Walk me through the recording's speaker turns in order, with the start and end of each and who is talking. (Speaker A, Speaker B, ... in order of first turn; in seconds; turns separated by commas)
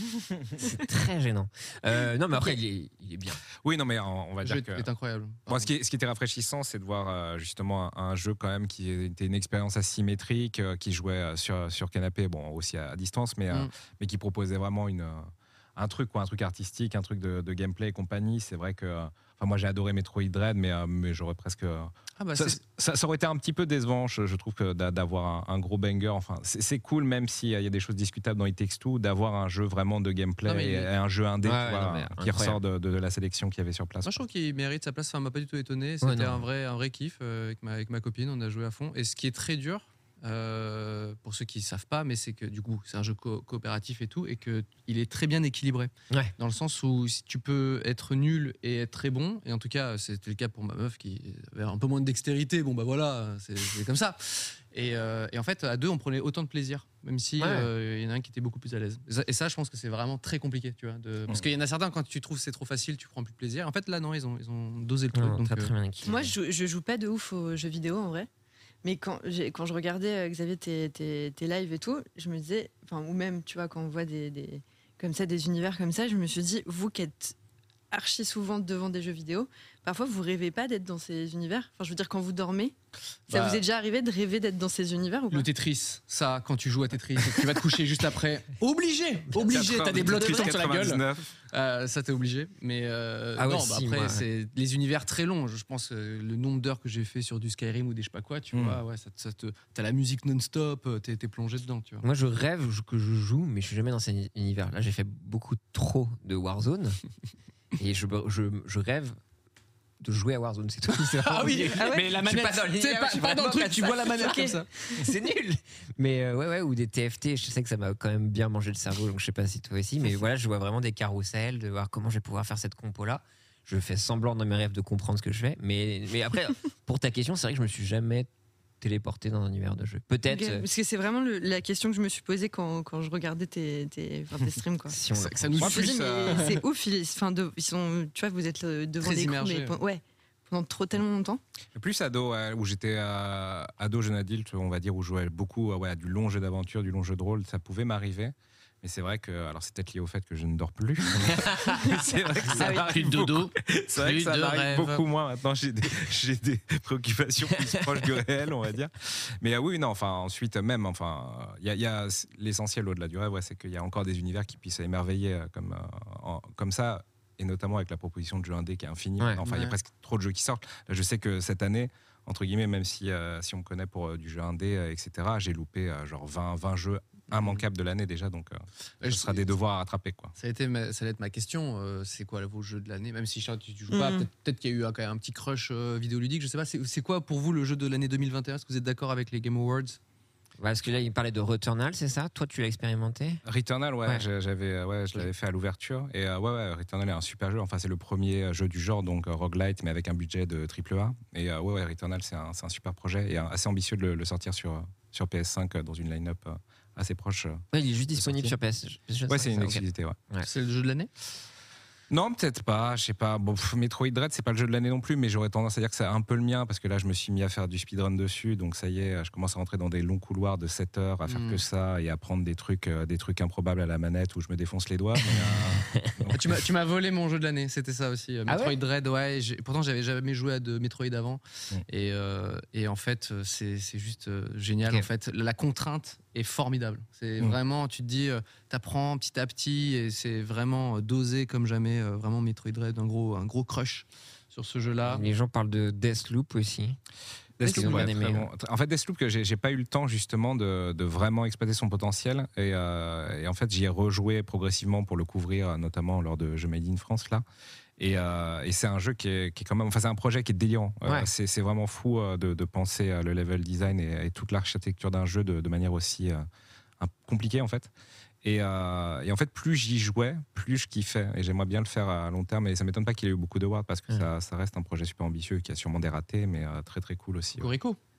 Speaker A: 0.6-3.4, Speaker B: 3.6-4.9, Speaker C: 4.4-5.7, Speaker B: 5.5-34.2, Speaker C: 22.2-22.6, Speaker C: 30.4-30.9, Speaker A: 31.4-32.6, Speaker C: 34.0-65.7, Speaker A: 36.0-36.4, Speaker A: 57.4-57.7, Speaker A: 65.1-66.3, Speaker D: 66.0-68.3, Speaker D: 68.8-77.3, Speaker D: 77.9-82.7, Speaker D: 83.3-85.5, Speaker C: 83.3-83.6, Speaker C: 85.3-102.0, Speaker B: 89.4-91.2, Speaker A: 93.4-94.2, Speaker B: 98.5-98.8, Speaker A: 102.0-107.0, Speaker A: 107.8-109.2, Speaker A: 110.0-128.3, Speaker C: 111.1-114.7, Speaker D: 111.8-112.0, Speaker D: 114.2-115.0, Speaker A: 128.8-130.6, Speaker D: 130.3-135.0, Speaker A: 134.9-135.8, Speaker C: 135.1-136.6, Speaker B: 135.6-136.5, Speaker D: 135.6-141.4, Speaker C: 139.0-139.8, Speaker B: 141.7-180.3, Speaker A: 151.3-151.8, Speaker C: 152.5-155.0, Speaker A: 152.5-152.8, Speaker C: 169.4-169.7, Speaker C: 177.3-177.6, Speaker C: 179.0-179.4, Speaker C: 180.4-190.0, Speaker D: 183.9-184.2, Speaker A: 190.6-193.4, Speaker B: 193.4-208.5, Speaker A: 207.7-210.5, Speaker B: 209.3-210.2, Speaker C: 210.4-211.1, Speaker B: 212.1-226.6, Speaker C: 221.3-221.6, Speaker C: 226.3-245.2, Speaker A: 228.5-228.8, Speaker A: 245.0-247.0, Speaker B: 247.6-257.4, Speaker A: 247.7-248.5, Speaker C: 247.7-248.1, Speaker B: 258.0-266.4, Speaker A: 261.0-261.3, Speaker B: 267.0-267.9, Speaker B: 268.4-277.7, Speaker C: 277.6-278.0